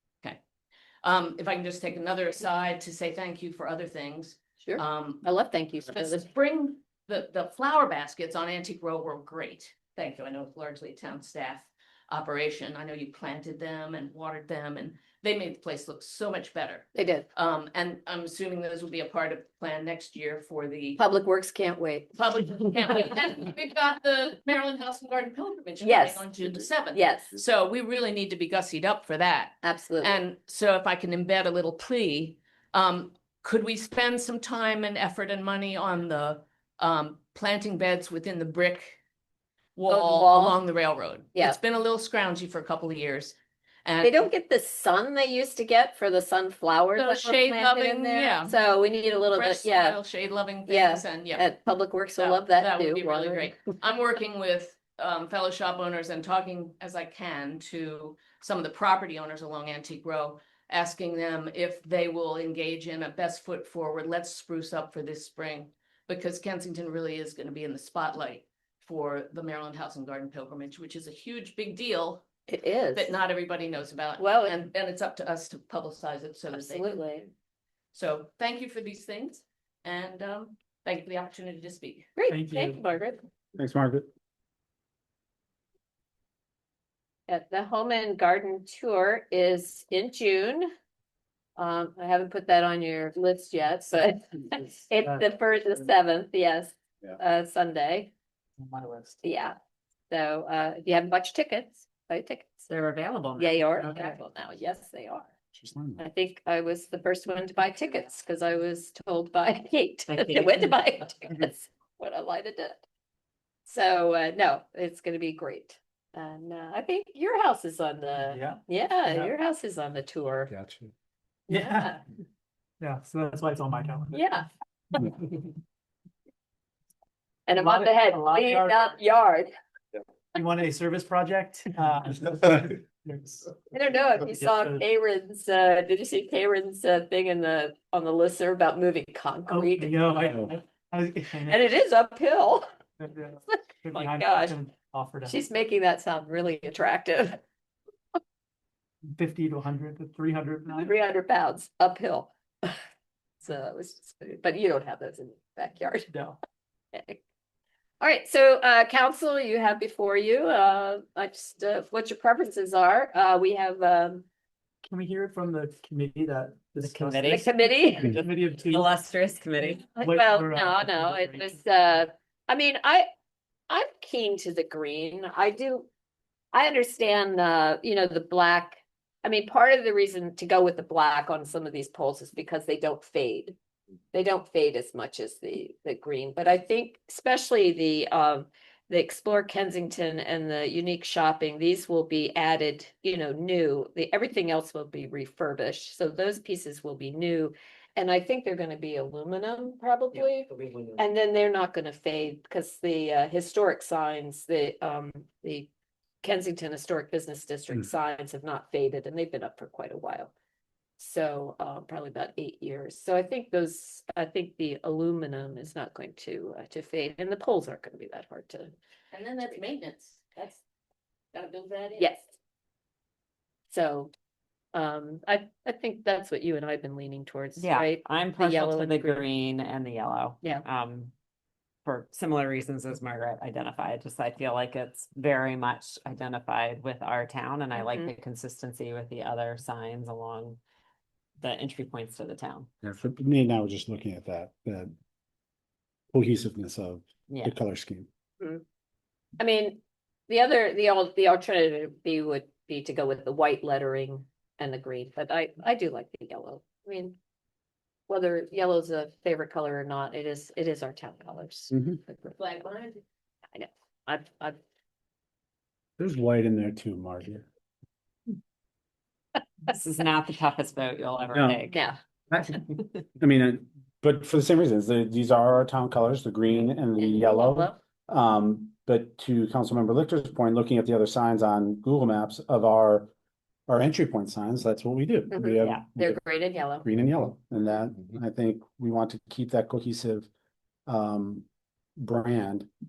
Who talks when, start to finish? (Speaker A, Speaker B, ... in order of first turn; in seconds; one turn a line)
Speaker A: 1.0-5.2
Speaker B: 4.6-6.2
Speaker A: 5.9-21.0
Speaker B: 16.9-17.2
Speaker B: 21.0-22.2
Speaker A: 22.2-39.0
Speaker B: 25.8-27.3
Speaker B: 29.6-30.2
Speaker A: 39.8-44.3
Speaker B: 39.9-40.6
Speaker B: 44.0-50.0
Speaker A: 47.0-48.5
Speaker A: 49.3-51.4
Speaker B: 50.7-53.6
Speaker A: 52.2-72.2
Speaker B: 72.5-73.2
Speaker A: 72.9-76.9
Speaker B: 74.2-74.6
Speaker B: 76.5-77.3
Speaker A: 77.9-82.1
Speaker B: 82.2-83.2
Speaker C: 82.3-82.7
Speaker D: 83.5-84.1
Speaker B: 87.3-90.7
Speaker B: 91.6-98.1
Speaker C: 98.6-99.1
Speaker B: 99.2-99.5
Speaker B: 100.1-102.7
Speaker E: 102.7-104.2
Speaker B: 103.4-105.3
Speaker D: 105.6-106.0
Speaker B: 106.0-112.8
Speaker E: 110.1-110.8
Speaker B: 113.7-120.5
Speaker C: 118.3-119.3
Speaker D: 120.5-120.9
Speaker B: 121.5-122.0
Speaker C: 121.5-121.9
Speaker C: 122.8-124.2
Speaker B: 124.1-124.5
Speaker B: 127.5-129.5
Speaker C: 127.6-128.7
Speaker C: 130.3-133.5
Speaker B: 133.7-140.0
Speaker C: 134.4-134.8
Speaker C: 139.5-141.6
Speaker B: 141.4-142.6
Speaker C: 143.0-145.3
Speaker B: 143.5-144.6
Speaker B: 145.2-147.4
Speaker C: 149.1-150.9
Speaker B: 150.7-152.8
Speaker B: 153.4-156.1
Speaker C: 156.1-156.3
Speaker B: 156.9-157.2
Speaker B: 158.0-164.2
Speaker C: 164.8-167.4
Speaker E: 166.8-167.5
Speaker B: 167.3-168.2
Speaker C: 168.2-168.8
Speaker E: 168.7-169.9
Speaker B: 169.9-173.1
Speaker C: 170.0-171.4
Speaker B: 173.7-175.9
Speaker B: 176.5-183.6
Speaker B: 184.1-205.7
Speaker E: 200.1-201.0
Speaker B: 206.2-210.3
Speaker B: 211.0-218.7
Speaker A: 219.1-220.6
Speaker A: 221.3-222.1
Speaker B: 222.0-222.2
Speaker B: 223.7-224.1
Speaker B: 224.7-229.2
Speaker E: 227.6-231.1
Speaker E: 231.8-240.6
Speaker B: 237.7-238.1
Speaker E: 241.4-242.7
Speaker D: 242.8-244.9
Speaker D: 246.1-248.1
Speaker E: 247.3-247.5
Speaker B: 249.4-257.1
Speaker B: 258.1-262.8
Speaker D: 261.7-262.0
Speaker A: 262.4-263.0
Speaker B: 263.5-264.6
Speaker D: 266.0-267.5
Speaker E: 269.7-271.8
Speaker D: 271.3-271.6
Speaker B: 271.7-272.0
Speaker D: 272.3-272.6
Speaker D: 273.2-283.1
Speaker B: 277.0-277.8
Speaker D: 283.7-286.2
Speaker B: 285.3-286.8
Speaker E: 285.6-285.9
Speaker D: 286.8-290.3
Speaker D: 290.9-291.4
Speaker D: 292.0-292.7